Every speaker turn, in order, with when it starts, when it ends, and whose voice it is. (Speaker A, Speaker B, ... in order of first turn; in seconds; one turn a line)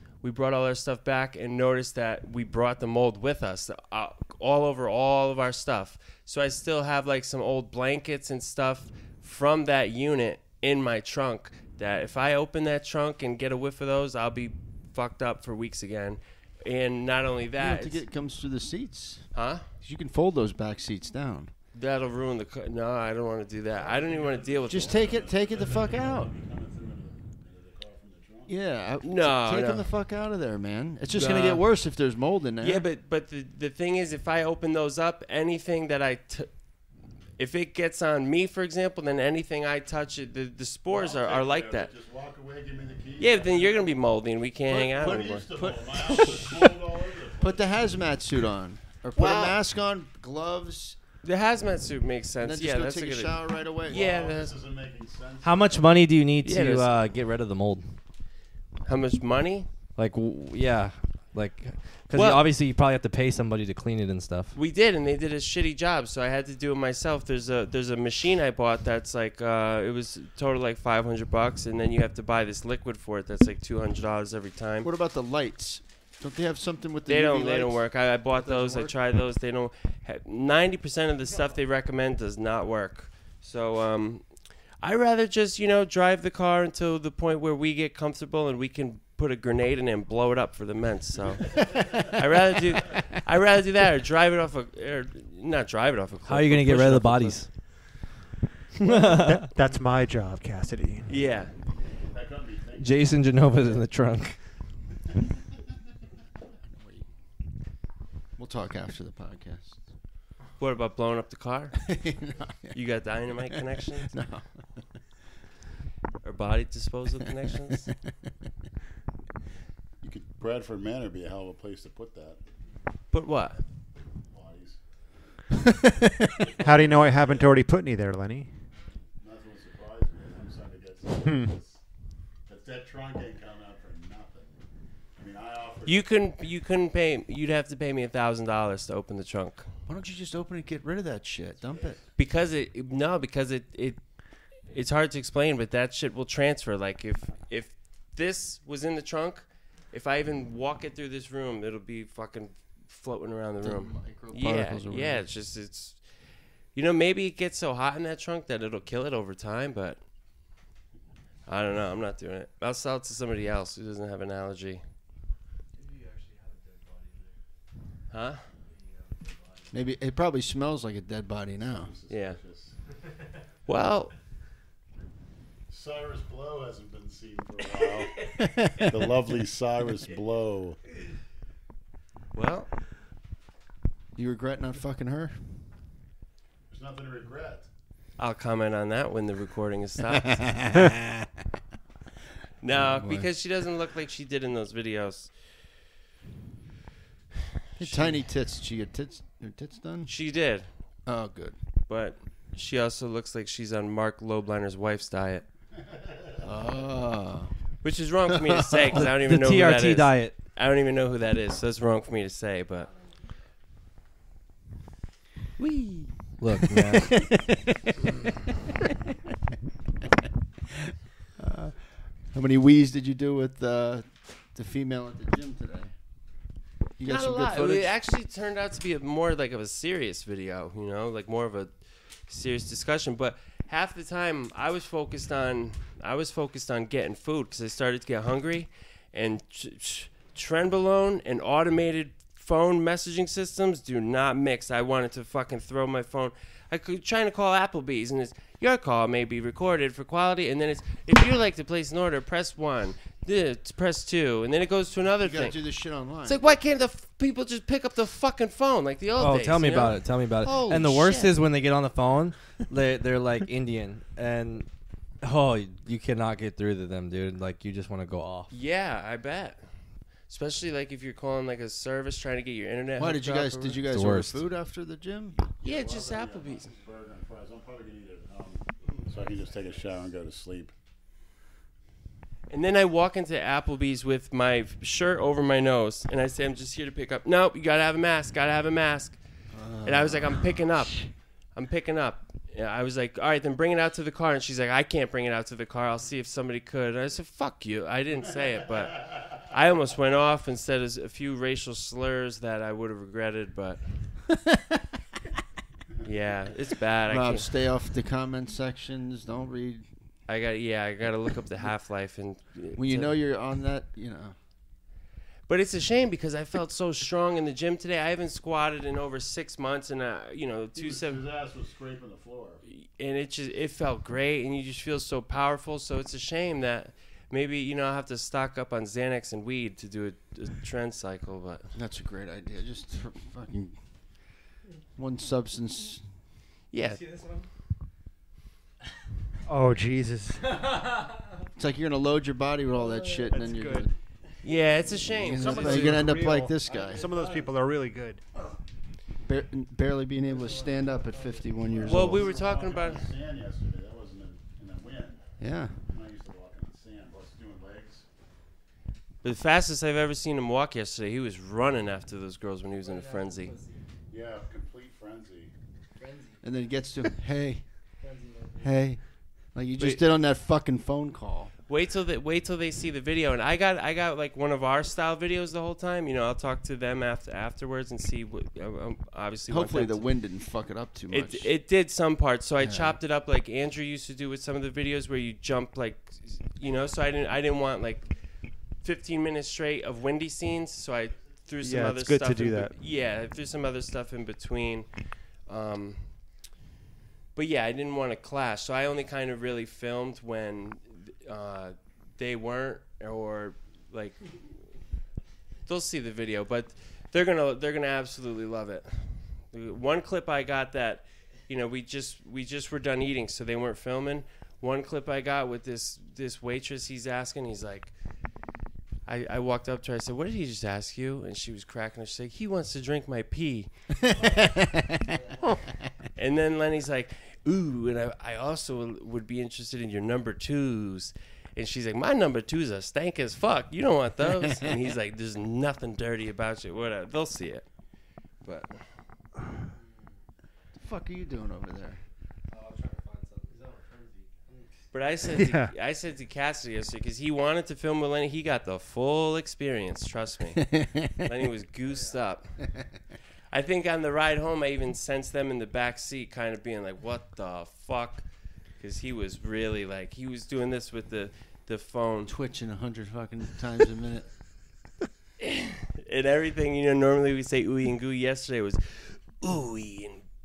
Speaker A: 0.2-18.0
Speaker B: 17.6-19.3
Speaker A: 19.3-19.7
Speaker B: 19.8-21.5
Speaker A: 21.7-25.0
Speaker C: 23.7-28.6
Speaker B: 24.7-26.3
Speaker B: 28.5-32.9
Speaker A: 29.0-29.9
Speaker A: 31.1-31.6
Speaker A: 32.6-36.5
Speaker A: 37.4-41.9
Speaker C: 40.9-44.0
Speaker A: 43.2-45.5
Speaker C: 44.7-47.7
Speaker B: 44.8-46.8
Speaker B: 47.4-51.0
Speaker A: 49.2-49.6
Speaker A: 51.2-54.5
Speaker B: 52.4-54.0
Speaker C: 53.9-56.1
Speaker D: 55.4-57.9
Speaker A: 56.4-56.9
Speaker A: 58.9-59.7
Speaker D: 60.0-64.6
Speaker A: 62.1-62.5
Speaker A: 64.5-74.9
Speaker B: 74.8-77.8
Speaker A: 77.1-84.3
Speaker B: 78.3-78.9
Speaker A: 84.8-97.4
Speaker D: 96.3-97.5
Speaker D: 98.8-99.5
Speaker E: 98.9-101.1
Speaker A: 101.1-101.5
Speaker C: 102.1-103.3
Speaker D: 102.8-104.4
Speaker B: 106.7-107.0
Speaker B: 108.4-109.8
Speaker A: 110.6-111.8
Speaker B: 111.8-112.8
Speaker A: 112.7-114.1
Speaker B: 114.0-114.8
Speaker A: 116.2-117.9
Speaker C: 120.0-122.4
Speaker A: 123.1-123.6
Speaker C: 124.3-124.8
Speaker B: 125.6-126.5
Speaker C: 126.4-127.5
Speaker E: 126.6-128.5
Speaker C: 129.2-131.8
Speaker C: 132.5-134.6
Speaker C: 135.2-136.1
Speaker A: 135.9-139.7
Speaker B: 139.9-142.0
Speaker C: 141.7-142.0
Speaker A: 142.2-144.0
Speaker A: 144.7-156.0
Speaker B: 153.6-155.3
Speaker A: 156.7-160.0
Speaker A: 161.5-164.8
Speaker F: 165.7-167.4
Speaker A: 168.1-168.4
Speaker F: 168.6-170.0
Speaker B: 169.7-171.9
Speaker C: 171.6-172.7
Speaker A: 172.1-172.4
Speaker A: 173.7-174.1
Speaker C: 175.7-180.8
Speaker B: 178.4-178.9
Speaker A: 182.3-182.7
Speaker B: 184.2-185.6
Speaker C: 186.7-187.7
Speaker A: 188.2-190.5
Speaker B: 190.3-191.3
Speaker A: 192.6-195.3
Speaker B: 192.7-193.3
Speaker A: 197.8-198.2
Speaker B: 197.8-200.1
Speaker A: 200.1-200.7
Speaker B: 201.1-201.6
Speaker A: 201.9-205.4
Speaker C: 205.9-206.7
Speaker B: 206.4-207.5
Speaker A: 207.8-212.9
Speaker B: 208.4-208.8
Speaker D: 208.9-210.3
Speaker F: 212.8-213.2
Speaker A: 215.6-216.1
Speaker D: 216.4-217.2
Speaker B: 216.6-218.0
Speaker B: 221.4-225.9
Speaker B: 227.0-227.9
Speaker A: 227.1-231.7
Speaker A: 232.3-255.6
Speaker B: 255.2-256.6
Speaker A: 256.2-260.0
Speaker D: 259.2-264.7
Speaker B: 260.4-261.3
Speaker D: 265.2-268.5
Speaker A: 268.5-269.6
Speaker A: 270.3-273.8
Speaker B: 273.0-275.4
Speaker D: 273.9-274.4
Speaker C: 275.6-280.7
Speaker A: 275.6-276.7
Speaker F: 278.9-279.8
Speaker A: 282.5-289.2
Speaker B: 289.5-290.6
Speaker A: 289.9-303.8
Speaker B: 304.3-304.8
Speaker A: 306.0-307.5
Speaker B: 307.1-309.9
Speaker A: 310.3-313.1
Speaker B: 312.8-314.4
Speaker A: 315.5-321.2
Speaker C: 320.8-322.6
Speaker A: 322.7-331.7
Speaker B: 331.7-333.8
Speaker B: 334.9-336.1
Speaker A: 336.7-337.1
Speaker F: 336.8-337.5
Speaker E: 339.4-340.6
Speaker F: 340.6-341.2
Speaker B: 341.6-343.9
Speaker E: 343.3-343.9
Speaker A: 344.4-346.0
Speaker B: 345.2-347.1
Speaker E: 345.3-348.2
Speaker F: 346.7-347.0
Speaker C: 347.1-347.4
Speaker B: 349.2-352.3
Speaker F: 350.2-352.2
Speaker C: 351.7-355.3
Speaker A: 351.9-353.1
Speaker B: 355.4-355.8
Speaker C: 355.9-358.1
Speaker A: 359.2-363.6
Speaker F: 362.8-363.8
Speaker C: 364.1-365.5
Speaker F: 366.0-366.7
Speaker B: 366.4-367.6
Speaker F: 368.0-368.9
Speaker B: 368.6-369.0
Speaker B: 369.5-371.5
Speaker A: 371.7-380.1
Speaker B: 379.5-381.5
Speaker A: 381.1-388.1
Speaker B: 382.6-383.0
Speaker A: 388.8-394.9
Speaker E: 391.6-392.7
Speaker A: 395.5-396.1
Speaker A: 397.4-404.4
Speaker A: 405.7-408.9
Speaker A: 409.5-417.9
Speaker A: 419.1-423.7
Speaker B: 424.0-425.1
Speaker F: 424.1-425.6
Speaker A: 426.1-437.7
Speaker A: 438.4-438.8
Speaker F: 439.7-440.2
Speaker B: 440.7-442.0
Speaker F: 442.5-444.7
Speaker A: 444.9-452.6
Speaker E: 445.3-445.7
Speaker B: 450.6-451.2
Speaker F: 451.9-452.2
Speaker B: 452.6-452.9
Speaker A: 453.5-458.3
Speaker A: 458.8-462.3
Speaker B: 462.3-464.3
Speaker A: 465.4-470.2